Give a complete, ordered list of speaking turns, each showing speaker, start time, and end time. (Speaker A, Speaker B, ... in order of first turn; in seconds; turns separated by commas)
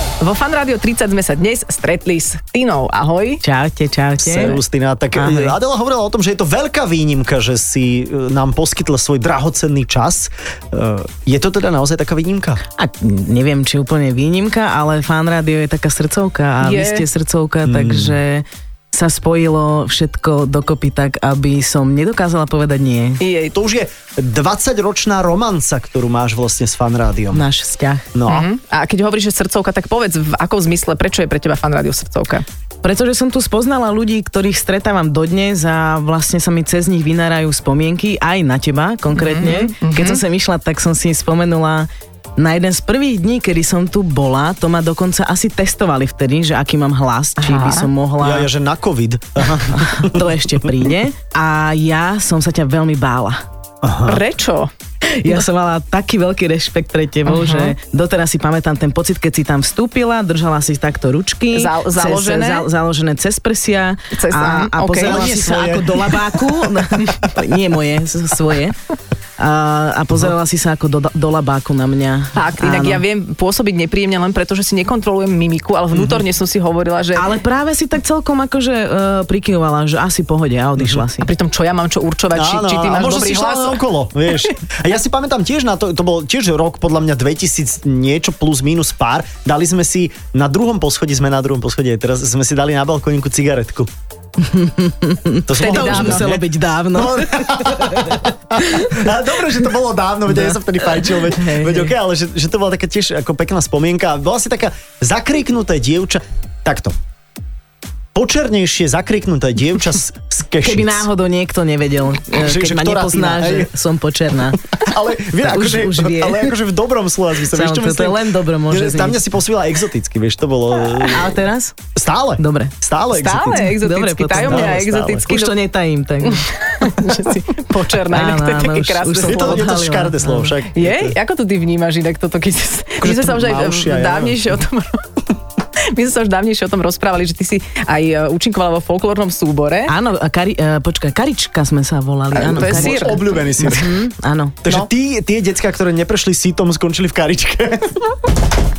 Speaker A: 0.2-3.4, Speaker B: 3.4-4.6, Speaker C: 4.2-12.6, Speaker B: 5.2-5.5, Speaker B: 12.8-23.2, Speaker A: 16.6-17.1, Speaker C: 17.7-18.1, Speaker A: 23.2-23.6, Speaker C: 23.5-27.4, Speaker B: 27.3-28.1, Speaker C: 28.1-28.5, Speaker A: 28.3-32.5, Speaker B: 32.8-48.5, Speaker A: 39.2-40.2, Speaker A: 47.4-47.9, Speaker C: 48.2-50.3, Speaker B: 49.7-53.4, Speaker C: 53.8-54.2, Speaker A: 54.1-54.7, Speaker B: 55.0-68.8, Speaker A: 57.3-57.8, Speaker A: 61.5-62.7, Speaker A: 64.2-65.3, Speaker C: 65.0-66.4, Speaker B: 69.4-73.0, Speaker A: 72.3-77.3, Speaker C: 75.9-76.2, Speaker B: 77.2-81.3, Speaker A: 81.2-83.8, Speaker C: 82.3-93.9, Speaker B: 94.4-99.0, Speaker C: 95.5-107.0, Speaker A: 95.6-96.3, Speaker B: 100.3-101.9, Speaker C: 108.1-111.0, Speaker B: 110.6-114.6, Speaker C: 112.4-113.7, Speaker C: 114.7-121.4, Speaker B: 115.4-116.5, Speaker B: 117.5-119.2, Speaker B: 121.0-121.8, Speaker C: 122.0-123.8, Speaker B: 122.4-122.8, Speaker A: 123.1-125.5, Speaker B: 123.6-126.5, Speaker C: 124.4-125.3, Speaker A: 126.2-129.7, Speaker B: 128.1-130.5, Speaker C: 129.3-131.2, Speaker A: 130.7-135.0, Speaker C: 133.0-134.5, Speaker A: 135.9-139.9, Speaker B: 139.9-144.6, Speaker A: 142.3-143.4, Speaker C: 142.5-144.0, Speaker C: 144.6-148.1